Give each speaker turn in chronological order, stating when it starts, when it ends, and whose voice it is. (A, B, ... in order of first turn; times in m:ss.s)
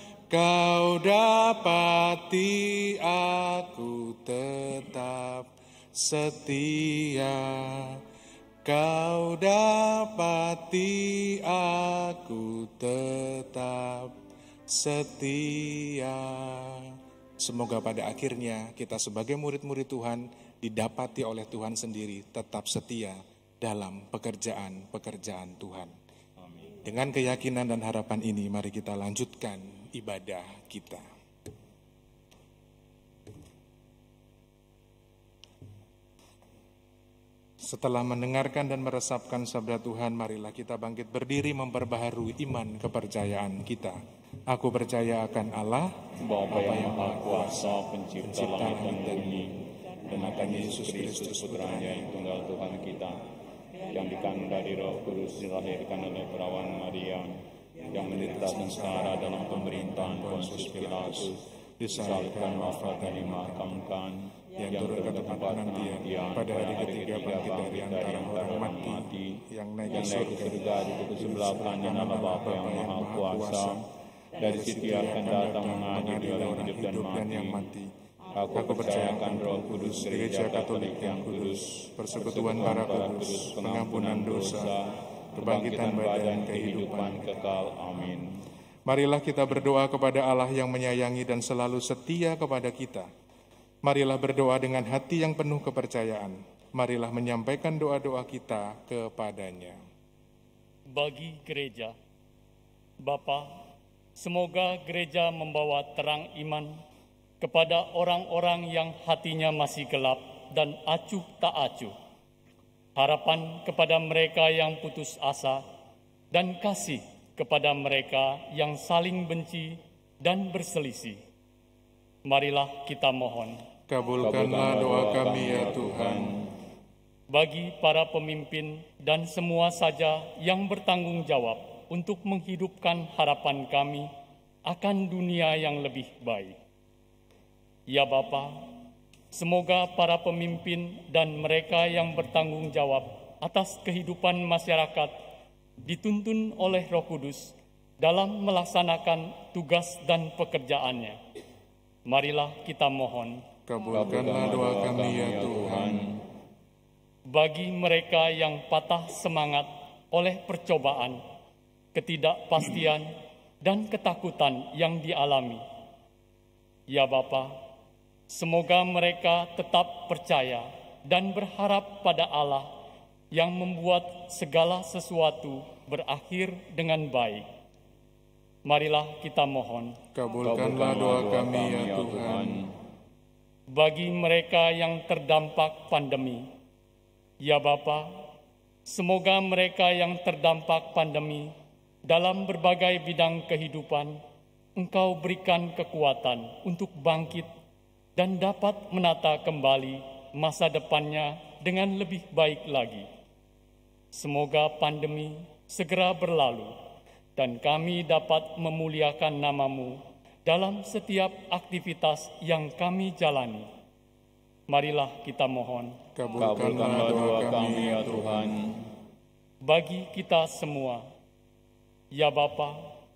0:00.3-0:08.0 A
0:08.6-0:14.1 A
0:14.7-0:25.9 A
0:26.4-0:26.8 B
0:26.8-0:31.0 A
0:37.6-0:44.0 A
0:44.5-0:45.9 A
0:46.2-0:53.2 B
0:46.5-0:49.4 A
0:50.1-0:52.1 A
0:53.9-0:57.4 B
0:57.9-1:01.4 B
0:58.0-1:03.7 A
1:01.9-1:13.8 B
1:04.6-1:10.6 A
1:11.2-1:13.8 A
1:14.4-1:17.7 B
1:14.5-1:17.9 A
1:18.4-1:28.4 B
1:18.5-1:24.8 A
1:25.4-1:27.4 A
1:28.9-1:33.1 A
1:33.8-1:39.8 A
1:40.9-1:42.0 C
1:43.0-1:43.6 C
1:44.2-1:46.8 C
1:47.4-1:51.9 C
1:53.0-1:55.6 C
1:56.3-2:01.2 C
2:02.3-2:03.6 C
2:03.9-2:06.3 A
2:04.2-2:06.5 B
2:07.3-2:14.1 C
2:14.7-2:16.6 C
2:17.9-2:18.7 C
2:19.3-2:25.1 C
2:25.8-2:31.2 C
2:32.1-2:33.4 C
2:33.7-2:36.0 A
2:33.9-2:36.2 B
2:37.3-2:41.2 C
2:41.9-2:43.1 C
2:43.6-2:45.6 C
2:46.9-2:47.6 C
2:48.3-2:52.7 C
2:53.3-2:57.5 C
2:58.6-3:00.0 C
3:00.1-3:02.6 A
3:00.4-3:02.8 B
3:03.7-3:06.5 C
3:07.4-3:08.3 C
3:08.9-3:11.5 C
3:12.1-3:14.2 C
3:14.8-3:17.5 C
3:18.2-3:23.1 C
3:24.1-3:26.7 C
3:27.4-3:33.7 C
3:34.7-3:36.0 C
3:36.2-3:38.5 A
3:36.4-3:38.8 B
3:39.6-3:41.1 C
3:42.1-3:42.9 C